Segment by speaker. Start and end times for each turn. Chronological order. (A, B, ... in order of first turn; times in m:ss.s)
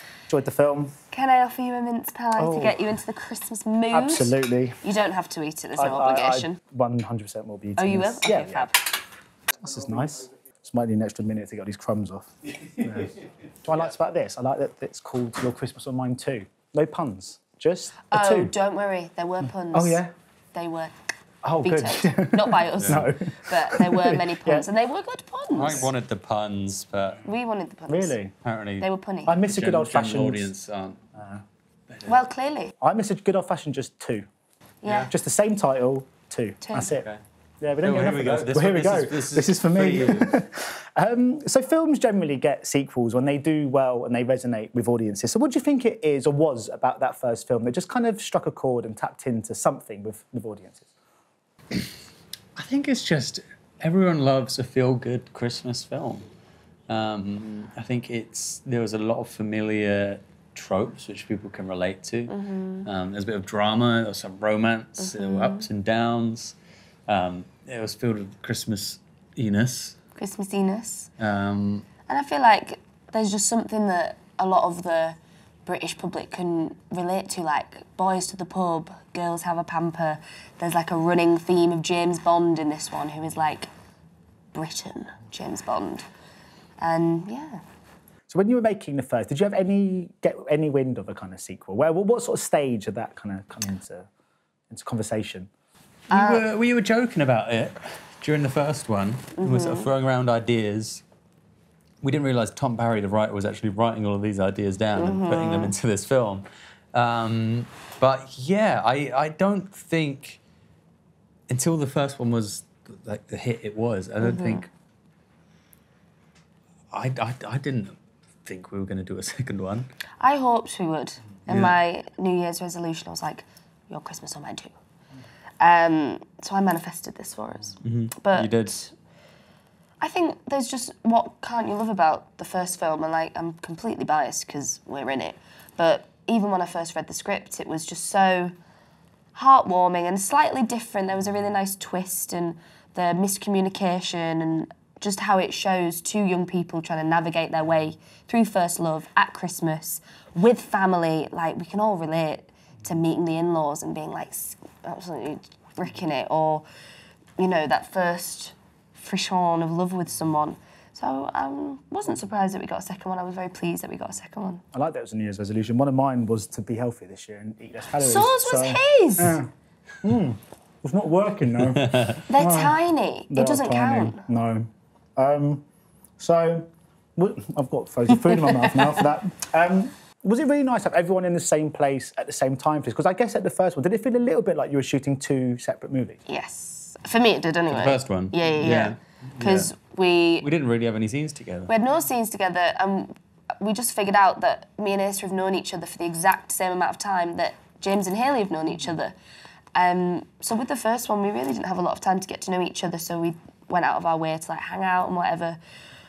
0:00.3-0:00.9 A
0:01.1-0:06.6 B
0:02.4-0:02.8 A
0:03.9-0:04.8 A
0:05.8-0:08.7 A
0:07.8-0:08.9 B
0:09.6-0:18.5 A
0:18.1-0:20.0 B
0:19.7-0:20.1 A
0:20.5-0:20.9 B
0:21.4-0:24.7 A
0:21.6-0:25.9 B
0:22.8-0:23.1 C
0:25.6-0:27.2 C
0:27.2-0:28.2 B
0:27.9-0:28.3 A
0:28.4-0:31.0 C
0:28.8-0:29.4 B
0:29.3-0:30.5 A
0:31.2-0:31.4 A
0:31.9-0:32.2 C
0:32.0-0:32.7 B
0:32.8-0:34.2 A
0:34.8-0:35.1 B
0:34.9-0:37.1 A
0:36.6-0:36.9 B
0:36.8-0:37.2 C
0:37.6-0:50.9 A
0:37.8-0:40.4 C
0:52.6-0:56.3 C
0:56.9-1:02.3 C
1:02.3-1:02.9 B
1:02.8-1:06.6 C
1:05.0-1:05.7 B
1:07.1-1:10.0 C
1:10.2-1:11.1 B
1:11.2-1:11.9 C
1:12.1-1:23.7 B
1:24.5-1:26.1 B
1:26.8-1:27.6 B
1:28.3-1:34.1 A
1:34.7-1:35.5 A
1:36.1-1:41.0 C
1:36.1-1:36.5 B
1:39.4-1:39.9 B
1:42.0-1:50.4 C
1:44.9-1:45.8 B
1:51.5-1:54.7 C
1:54.2-1:54.6 B
1:56.9-1:59.9 C
2:00.2-2:04.7 B
2:01.5-2:01.8 C
2:05.6-2:08.9 B
2:07.8-2:08.8 C
2:10.0-2:18.5 B
2:19.3-2:36.6 B
2:37.4-2:44.6 B
2:44.7-2:49.5 A
2:48.0-2:49.4 B
2:50.0-2:52.8 A
2:51.6-2:52.2 C
2:52.3-2:54.2 B
2:53.3-2:55.6 A
2:56.2-3:06.2 A
2:58.2-2:59.0 B
3:06.3-3:10.5 B
3:07.7-3:09.7 C
3:10.4-3:11.7 C
3:11.7-3:19.1 B
3:19.8-3:25.6 B